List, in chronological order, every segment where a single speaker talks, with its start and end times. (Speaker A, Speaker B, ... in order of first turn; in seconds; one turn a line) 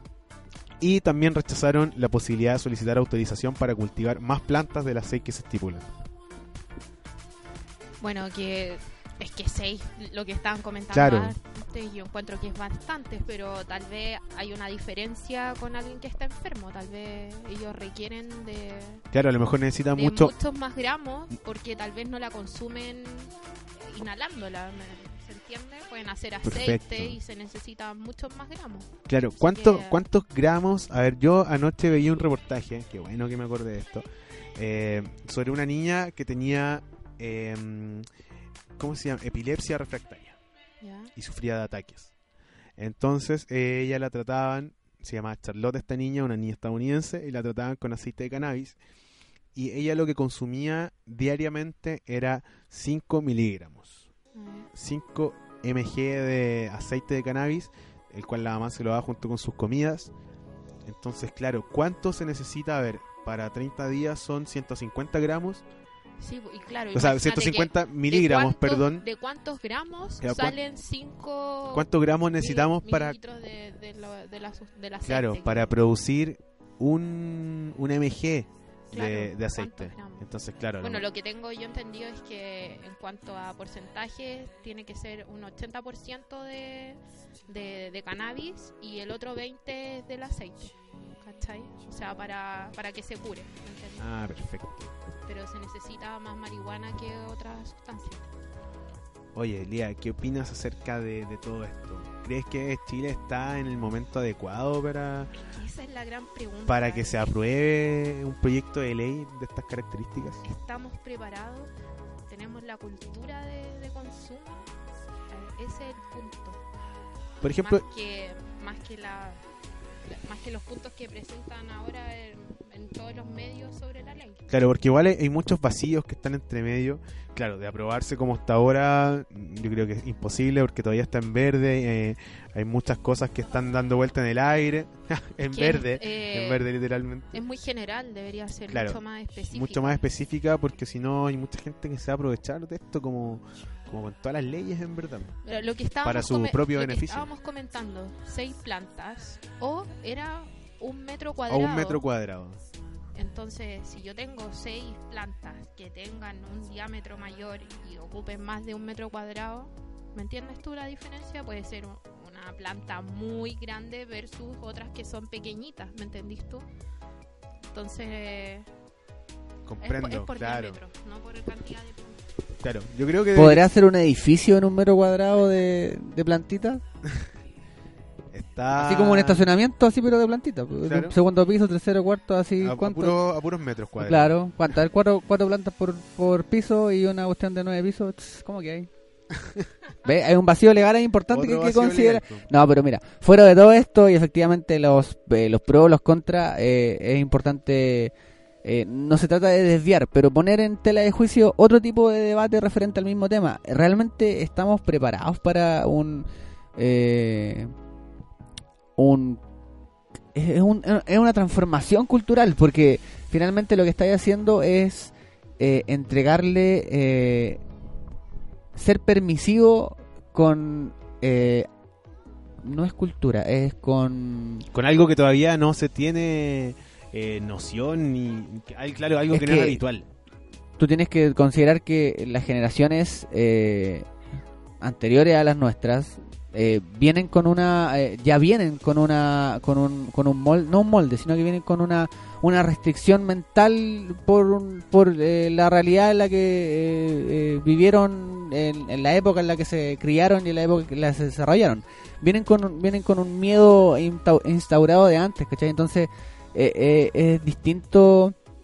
Speaker A: 0.8-5.8
Speaker B: 8.0-19.0
Speaker A: 10.9-11.4
Speaker A: 19.1-20.3
Speaker B: 19.9-30.0
Speaker A: 26.4-27.2
Speaker A: 29.1-34.1
Speaker A: 34.6-38.1
Speaker A: 38.8-40.4
Speaker B: 40.8-41.1
Speaker A: 41.1-42.1
Speaker A: 42.8-48.8
Speaker A: 49.5-54.0
Speaker B: 54.3-54.7
Speaker A: 54.7-60.1
Speaker A: 60.9-65.6
Speaker B: 66.2-75.7
Speaker A: 66.9-69.0
Speaker A: 70.2-70.6
Speaker A: 71.7-73.2
Speaker A: 75.0-81.0
Speaker B: 78.9-80.3
Speaker B: 80.8-94.0
Speaker A: 94.0-94.9
Speaker B: 95.3-98.3
Speaker A: 99.3-105.3
Speaker B: 105.4-107.3
Speaker A: 106.7-110.4
Speaker B: 110.5-111.7
Speaker B: 112.3-114.7
Speaker B: 115.3-116.6
Speaker A: 117.4-117.8
Speaker B: 117.6-119.4
Speaker B: 120.0-124.5
Speaker A: 124.5-137.4
Speaker B: 135.5-136.7
Speaker B: 137.3-140.0
Speaker A: 138.7-145.3
Speaker B: 145.4-152.0
Speaker A: 146.0-147.3
Speaker A: 151.5-152.6
Speaker B: 153.2-166.7
Speaker B: 167.7-168.7
Speaker A: 169.7-170.8
Speaker B: 169.8-172.3
Speaker A: 172.6-173.7
Speaker C: 173.3-176.8
Speaker A: 178.3-179.5
Speaker C: 178.8-183.2
Speaker A: 180.8-181.2
Speaker A: 182.6-184.4
Speaker C: 184.0-188.9
Speaker C: 190.1-198.1
Speaker A: 191.3-192.5
Speaker C: 198.6-207.7
Speaker C: 209.0-209.4
Speaker C: 210.3-217.6
Speaker C: 218.8-221.7
Speaker C: 222.6-224.7
Speaker A: 224.7-230.1
Speaker C: 229.3-229.8
Speaker C: 230.8-234.1
Speaker C: 234.8-258.4